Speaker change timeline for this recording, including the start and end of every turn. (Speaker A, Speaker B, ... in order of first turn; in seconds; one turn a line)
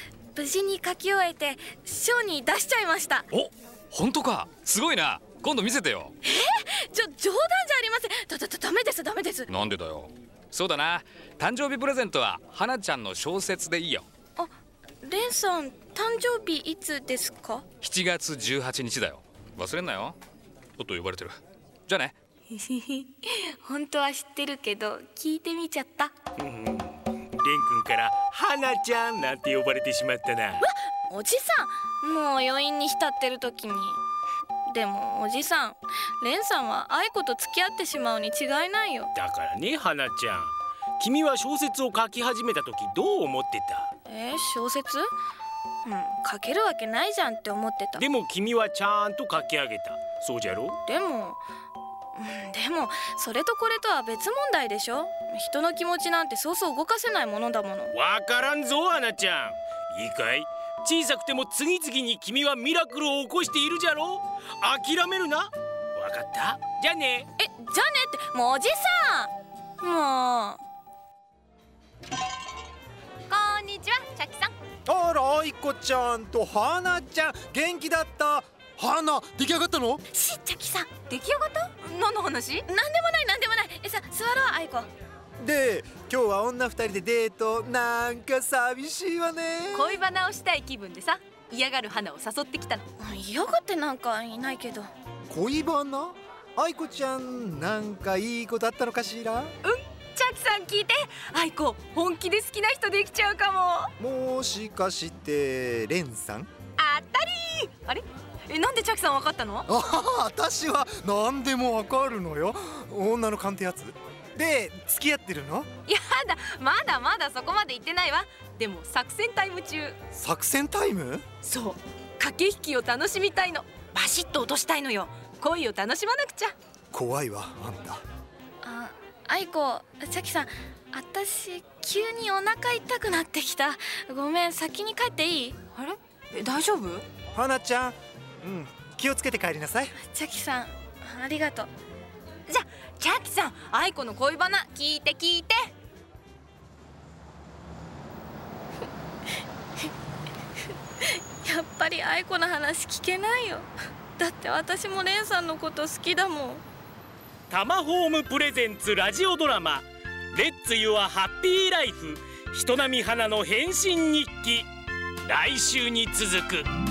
Speaker A: 0.3-3.3
Speaker B: 3.3-6.1
Speaker A: 6.2-9.5
Speaker B: 9.5-14.1
Speaker A: 14.3-17.7
Speaker B: 17.8-20.2
Speaker B: 20.8-22.1
Speaker A: 22.5-26.1
Speaker C: 26.4-30.7
Speaker A: 30.6-34.0
Speaker A: 34.7-39.1
Speaker C: 39.1-43.9
Speaker A: 44.0-45.1
Speaker A: 45.8-48.0
Speaker C: 48.0-50.8
Speaker A: 50.8-51.4
Speaker A: 52.1-57.9
Speaker C: 57.9-67.3
Speaker A: 67.4-70.6
Speaker D: 73.3-74.5
Speaker E: 74.9-80.0
Speaker A: 80.1-80.9
Speaker D: 81.0-82.6
Speaker A: 82.7-84.9
Speaker E: 85.4-90.0
Speaker D: 89.7-92.8
Speaker A: 93.0-94.9
Speaker E: 95.3-99.5
Speaker D: 99.6-103.9
Speaker E: 104.0-106.5
Speaker D: 106.8-109.7
Speaker E: 109.7-115.7
Speaker D: 115.9-120.0
Speaker E: 120.1-121.2
Speaker D: 121.4-126.5
Speaker E: 126.9-128.0
Speaker A: 128.6-135.6
Speaker D: 135.8-137.0
Speaker E: 137.3-139.9
Speaker A: 140.0-141.7
Speaker D: 142.5-145.6
Speaker A: 151.0-156.6
Speaker C: 157.5-164.7
Speaker C: 165.2-166.7